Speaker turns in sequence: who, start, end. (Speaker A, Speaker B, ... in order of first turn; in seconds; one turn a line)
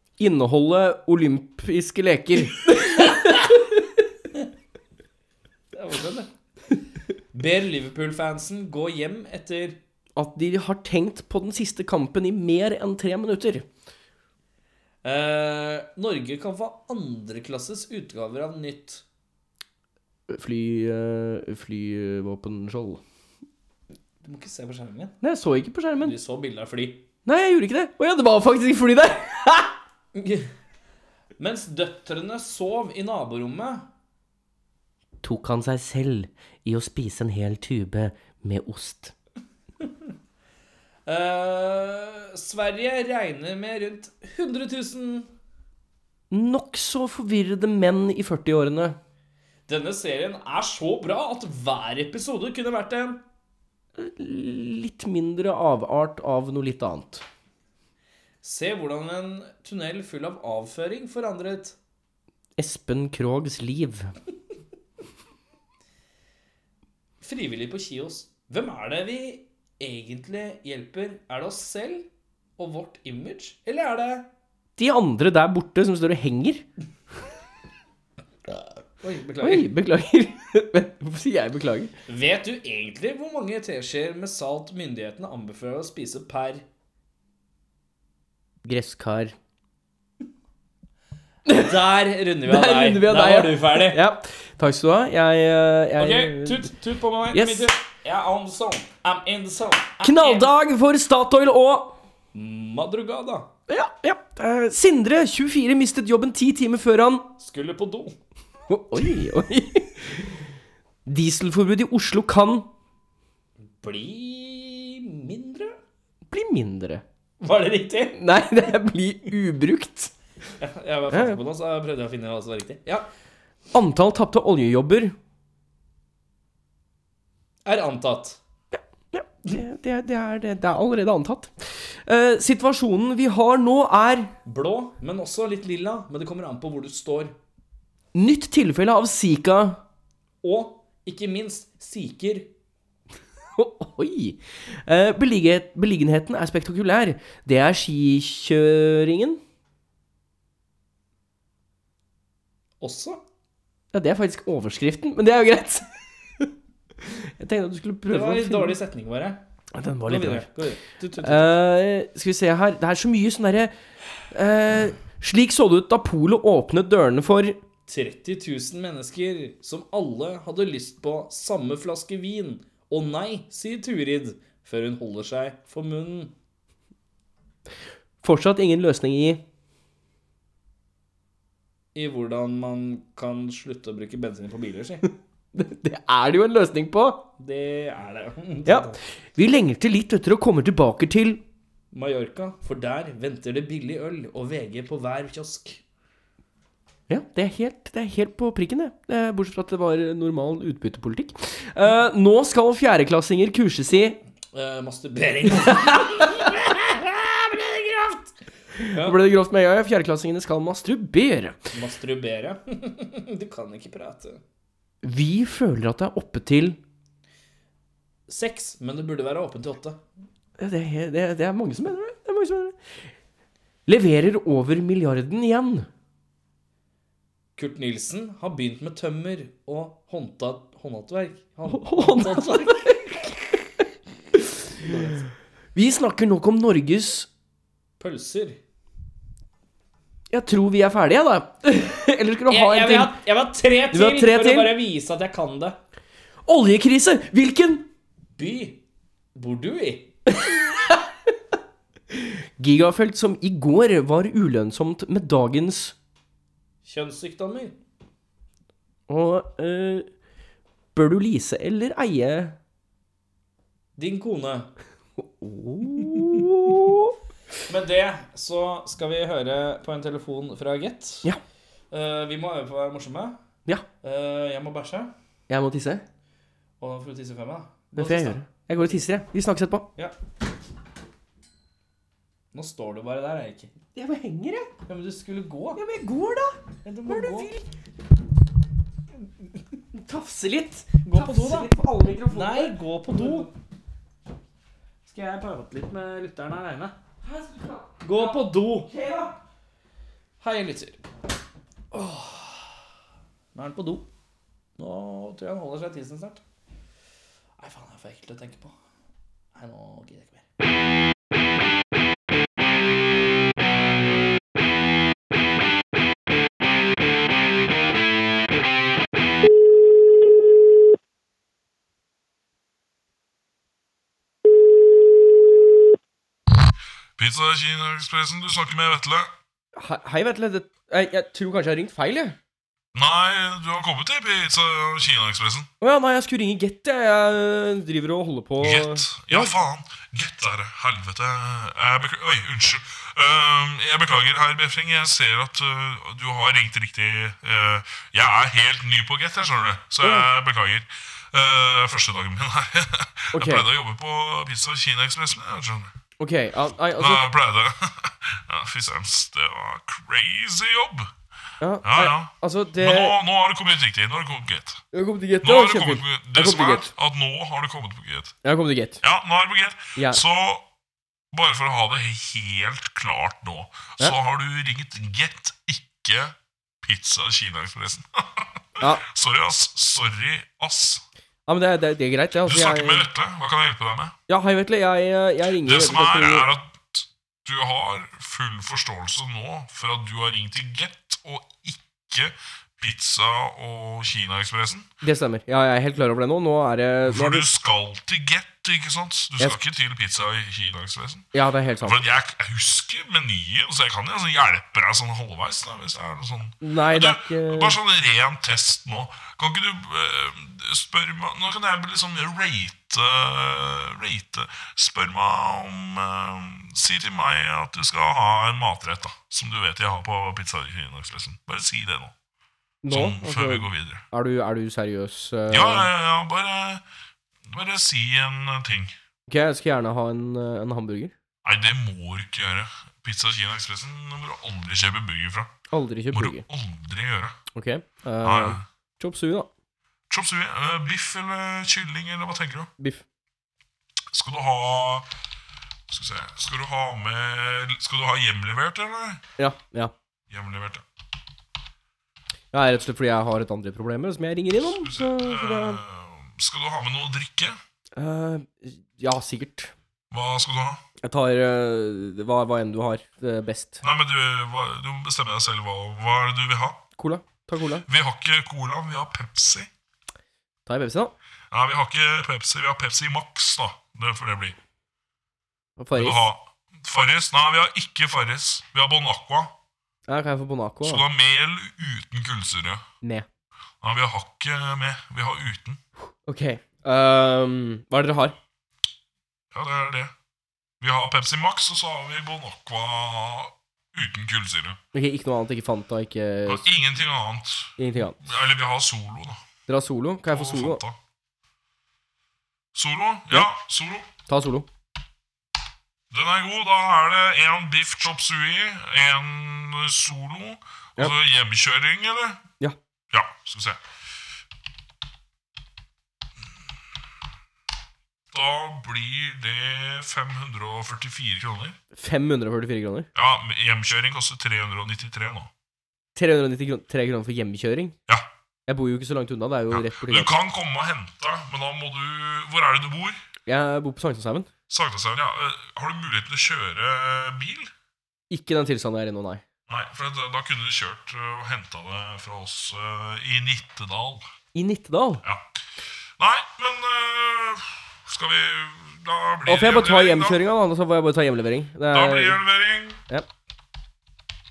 Speaker A: 0.2-4.0
Speaker B: 5.7-6.3
Speaker B: 7.3-9.8
Speaker A: 10.2-13.7
Speaker B: 15.0-19.0
Speaker A: 20.3-23.0
Speaker B: 24.2-25.1
Speaker A: 25.2-26.1
Speaker B: 26.0-27.0
Speaker A: 27.2-29.8
Speaker B: 30.1-30.5
Speaker B: 31.4-33.9
Speaker A: 35.2-39.1
Speaker B: 41.0-45.3
Speaker A: 46.3-49.0
Speaker B: 49.7-53.2
Speaker A: 54.0-57.2
Speaker B: 58.4-61.8
Speaker A: 62.6-64.1
Speaker B: 67.2-74.3
Speaker A: 74.8-76.6
Speaker B: 79.0-79.7
Speaker A: 79.4-81.9
Speaker B: 82.1-86.6
Speaker A: 88.6-89.3
Speaker A: 91.5-91.8
Speaker B: 91.5-94.0
Speaker A: 92.4-96.7
Speaker B: 96.0-100.5
Speaker A: 97.3-97.7
Speaker A: 100.0-102.0
Speaker B: 102.3-103.5
Speaker A: 103.7-107.3
Speaker B: 107.4-108.2
Speaker A: 108.7-110.4
Speaker A: 111.0-112.7
Speaker B: 113.8-115.8
Speaker A: 116.3-117.0
Speaker B: 117.4-118.2
Speaker A: 118.1-120.1
Speaker B: 120.6-123.1
Speaker A: 121.1-121.4
Speaker A: 123.7-125.2
Speaker B: 127.6-128.4
Speaker A: 128.7-134.3
Speaker B: 134.4-137.3
Speaker A: 138.1-139.8
Speaker B: 140.4-142.5
Speaker A: 143.6-149.4
Speaker B: 152.8-153.2
Speaker A: 153.9-158.8
Speaker B: 158.1-159.4
Speaker A: 159.7-160.5
Speaker B: 160.1-161.6
Speaker A: 161.2-163.7
Speaker A: 164.3-167.6
Speaker B: 167.9-176.3
Speaker A: 178.2-179.4
Speaker B: 181.9-185.1
Speaker A: 185.5-187.2
Speaker B: 187.4-189.0
Speaker A: 188.7-191.4
Speaker B: 191.9-195.8
Speaker A: 197.1-204.2
Speaker B: 204.5-209.2
Speaker A: 208.8-211.6
Speaker B: 211.7-214.4
Speaker A: 215.0-216.8
Speaker B: 218.3-220.0
Speaker A: 220.6-222.8
Speaker A: 223.9-225.9
Speaker B: 227.6-233.0
Speaker A: 231.7-233.4
Speaker A: 234.3-234.9
Speaker B: 234.8-235.2
Speaker A: 235.7-237.3
Speaker B: 238.0-238.6
Speaker A: 240.3-243.2
Speaker B: 242.5-245.8
Speaker A: 243.9-244.7
Speaker A: 246.4-247.9
Speaker B: 248.4-248.8
Speaker B: 249.3-250.1
Speaker A: 250.3-251.1
Speaker A: 252.1-255.9
Speaker B: 256.8-257.8
Speaker A: 259.1-260.1
Speaker A: 260.9-262.6
Speaker B: 264.0-264.7
Speaker A: 265.2-267.1
Speaker B: 266.1-266.4
Speaker B: 267.7-271.3
Speaker B: 271.9-273.4
Speaker B: 274.0-275.1
Speaker A: 275.5-276.0
Speaker B: 276.8-279.0
Speaker A: 277.9-279.9
Speaker B: 282.5-283.7
Speaker A: 283.9-284.7
Speaker B: 284.9-285.8
Speaker A: 285.8-287.7
Speaker B: 286.8-287.5
Speaker A: 289.9-293.5
Speaker B: 291.0-291.7
Speaker B: 292.3-293.5
Speaker B: 295.1-297.0
Speaker A: 297.2-299.4
Speaker B: 298.0-298.9
Speaker B: 300.4-301.0
Speaker B: 301.9-302.6
Speaker B: 303.5-304.1
Speaker B: 304.8-306.4
Speaker B: 307.6-308.7
Speaker B: 309.5-310.4
Speaker C: 327.2-329.3
Speaker A: 329.7-332.4
Speaker C: 332.9-335.7
Speaker A: 335.8-339.6
Speaker C: 338.6-355.9
Speaker A: 350.0-350.3
Speaker A: 353.3-353.7
Speaker A: 356.2-357.3
Speaker C: 356.9-361.1
Speaker A: 361.6-363.1
Speaker C: 361.8-364.8
Speaker A: 364.9-366.9
Speaker C: 365.4-368.4
Speaker A: 368.4-369.0
Speaker C: 369.0-370.6
Speaker A: 369.9-370.2
Speaker C: 371.3-381.0
Speaker A: 381.5-383.1
Speaker C: 382.4-384.1
Speaker A: 384.3-386.5
Speaker C: 385.6-394.9
Speaker A: 395.0-397.5
Speaker C: 397.1-401.3
Speaker A: 401.3-402.0
Speaker C: 401.8-422.1
Speaker A: 406.6-407.8
Speaker A: 422.8-425.9
Speaker C: 422.9-424.0
Speaker C: 425.5-426.8
Speaker C: 427.5-428.9
Speaker A: 429.3-431.1
Speaker C: 431.4-435.5
Speaker A: 435.7-436.4
Speaker C: 436.1-437.4
Speaker A: 437.5-439.5
Speaker C: 438.2-438.6
Speaker C: 440.1-442.7
Speaker A: 442.8-443.0
Speaker C: 444.1-445.1
Speaker C: 445.9-449.2
Speaker A: 449.4-449.9
Speaker C: 450.3-450.8
Speaker A: 452.5-455.8
Speaker C: 454.8-457.6
Speaker A: 457.9-459.7
Speaker C: 460.1-460.8
Speaker A: 461.0-463.8
Speaker C: 463.8-466.8
Speaker A: 467.0-467.9
Speaker C: 467.9-469.7
Speaker A: 470.6-471.1
Speaker C: 471.5-474.5
Speaker A: 475.8-476.2
Speaker C: 475.9-479.5
Speaker A: 480.1-481.0
Speaker C: 480.8-482.8
Speaker A: 483.0-483.3
Speaker C: 483.8-485.8
Speaker A: 486.2-488.4
Speaker C: 489.5-490.1
Speaker C: 490.8-494.8
Speaker A: 494.9-496.6
Speaker C: 496.4-499.4
Speaker A: 497.8-498.2
Speaker A: 499.7-500.8
Speaker C: 500.3-501.0
Speaker C: 502.7-504.1
Speaker A: 504.3-504.7
Speaker C: 506.1-512.4
Speaker C: 513.1-513.8
Speaker C: 518.3-521.8
Speaker A: 521.9-523.1
Speaker C: 523.1-525.5
Speaker A: 526.1-527.9
Speaker A: 528.7-530.3
Speaker C: 529.7-533.2
Speaker A: 533.5-534.5
Speaker C: 534.7-537.7
Speaker A: 538.3-539.4
Speaker C: 539.7-544.2
Speaker A: 544.5-545.2
Speaker C: 545.2-545.6
Speaker C: 546.2-550.4
Speaker A: 549.5-552.4
Speaker C: 551.9-553.0